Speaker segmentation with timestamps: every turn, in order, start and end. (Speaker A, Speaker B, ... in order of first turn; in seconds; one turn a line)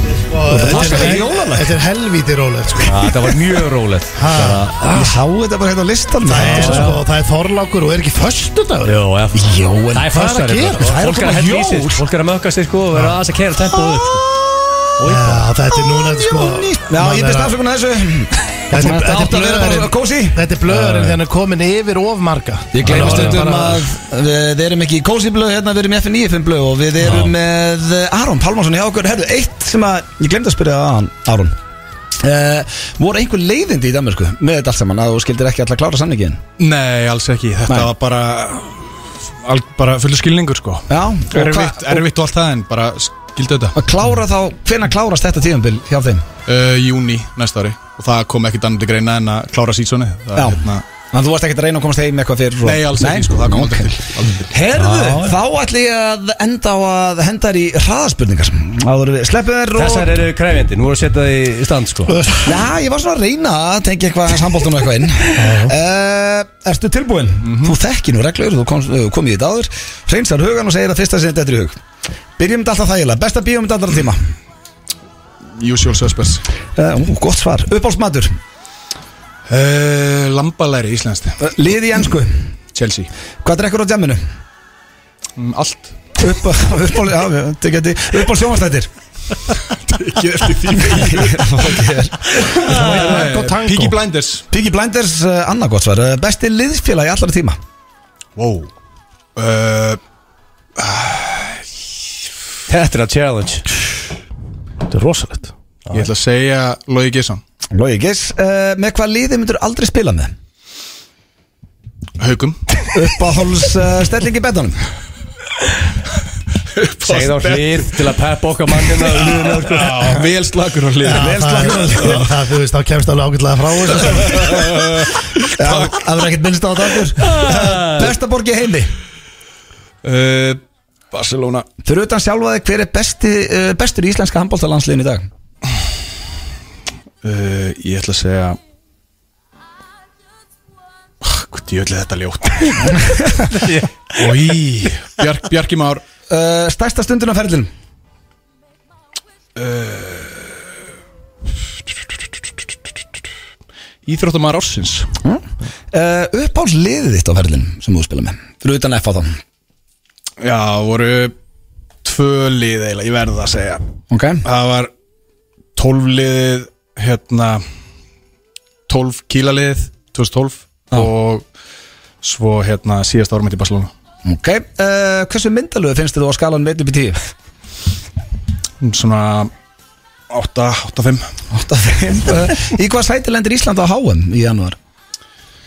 Speaker A: 0.3-3.4
Speaker B: 0.5-1.7
Speaker C: 0.7-1.2
Speaker C: 2.9-5.0
Speaker A: 4.2-5.1
Speaker B: 4.9-6.9
Speaker A: 6.2-9.0
Speaker C: 6.3-7.0
Speaker C: 8.8-14.2
Speaker B: 9.3-10.1
Speaker A: 10.1-11.0
Speaker B: 10.8-12.0
Speaker A: 12.9-13.2
Speaker C: 15.0-15.4
Speaker A: 15.0-17.6
Speaker B: 15.7-20.4
Speaker A: 18.7-23.9
Speaker B: 22.7-31.6
Speaker C: 22.8-23.4
Speaker C: 27.0-27.3
Speaker B: 32.2-36.4
Speaker D: 36.6-43.8
Speaker B: 40.9-42.0
Speaker B: 43.8-46.3
Speaker D: 46.5-50.9
Speaker B: 50.4-60.1
Speaker D: 52.6-54.6
Speaker C: 54.8-55.4
Speaker C: 59.8-62.2
Speaker A: 62.1-62.5
Speaker B: 62.4-71.8
Speaker A: 65.3-65.7
Speaker D: 67.4-67.8
Speaker B: 72.4-74.2
Speaker D: 75.6-76.4
Speaker B: 76.8-78.3
Speaker D: 79.5-81.5
Speaker B: 81.4-82.5
Speaker D: 82.7-83.1
Speaker B: 83.4-84.2
Speaker D: 85.4-86.0
Speaker B: 86.2-88.9
Speaker D: 89.7-91.8
Speaker B: 90.7-93.0
Speaker D: 92.3-94.4
Speaker C: 92.7-93.4
Speaker A: 92.7-93.9
Speaker B: 94.5-97.6
Speaker D: 98.4-98.7
Speaker D: 99.4-100.0
Speaker D: 100.8-101.6
Speaker C: 102.7-103.7
Speaker A: 104.9-105.5
Speaker D: 105.9-107.4
Speaker B: 107.7-110.3
Speaker D: 112.2-112.9
Speaker B: 112.9-114.8
Speaker D: 116.7-118.0
Speaker C: 117.0-120.2
Speaker D: 118.8-122.2
Speaker A: 121.0-124.7
Speaker B: 121.1-122.2
Speaker D: 124.0-126.0
Speaker B: 125.6-128.9
Speaker C: 127.2-128.2
Speaker D: 130.0-130.6
Speaker D: 131.1-131.7
Speaker B: 131.8-135.3
Speaker D: 137.2-138.6
Speaker D: 141.2-143.4
Speaker C: 143.5-144.2
Speaker D: 144.1-146.0
Speaker B: 146.3-147.7
Speaker D: 149.6-150.5
Speaker D: 154.1-155.1
Speaker B: 155.2-159.4
Speaker D: 160.4-161.3
Speaker D: 162.0-163.8
Speaker B: 164.1-164.4
Speaker D: 164.4-164.9
Speaker D: 165.8-167.6
Speaker D: 168.9-171.4
Speaker D: 172.2-173.9
Speaker B: 174.3-177.2
Speaker D: 178.8-179.5
Speaker D: 180.3-181.3
Speaker B: 181.5-184.8